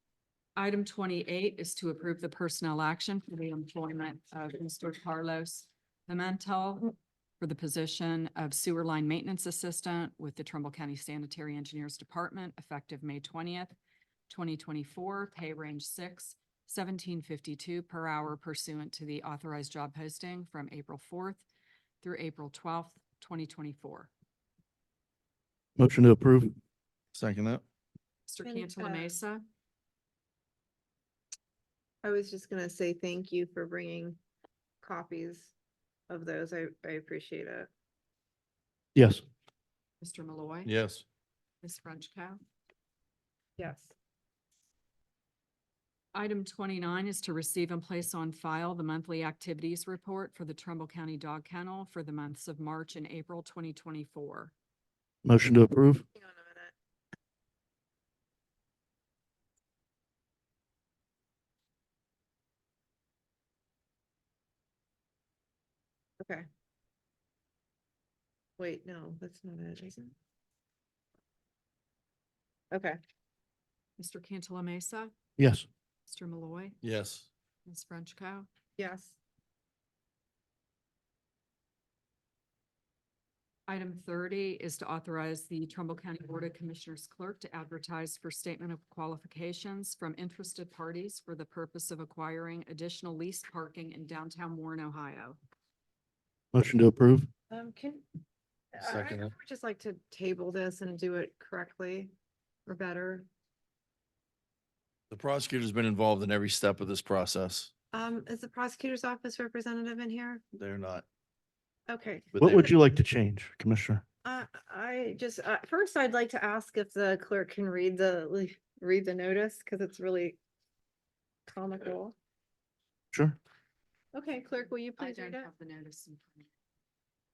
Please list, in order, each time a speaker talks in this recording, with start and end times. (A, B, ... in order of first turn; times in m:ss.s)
0:00.6-0:13.8 A
0:14.3-0:21.4 A
0:22.0-0:24.1 A
0:25.8-0:26.6 B
0:27.1-0:27.6 C
0:28.3-0:29.4 A
0:28.4-0:29.1 D
0:32.0-0:34.2 D
0:34.8-0:35.5 D
0:36.1-0:37.7 D
0:39.0-0:39.2 B
0:40.0-0:40.7 A
0:40.7-0:41.0 C
0:41.6-0:42.4 A
0:43.6-0:43.9 D
0:46.1-0:54.5 A
0:55.2-0:56.0 B
0:56.2-0:56.7 D
1:06.2-1:06.5 D
1:08.6-1:10.2 D
1:12.7-1:13.0 D
1:14.0-1:15.1 A
1:15.4-1:15.6 B
1:16.1-1:16.8 A
1:16.8-1:17.3 C
1:17.7-1:18.5 A
1:18.8-1:19.2 D
1:23.7-1:35.4 A
1:36.5-1:37.3 B
1:37.5-1:38.0 D
1:38.7-1:42.1 D
1:38.8-1:39.3 C
1:42.7-1:43.3 D
1:45.1-1:47.7 C
1:47.9-1:50.4 D
1:50.5-1:51.0 C
1:51.9-1:52.7 D
1:52.3-1:52.7 C
1:52.4-1:54.0 B
1:54.2-2:00.4 D
2:01.5-2:02.2 D
2:03.1-2:03.4 B
2:04.1-2:05.5 D
2:05.0-2:06.5 A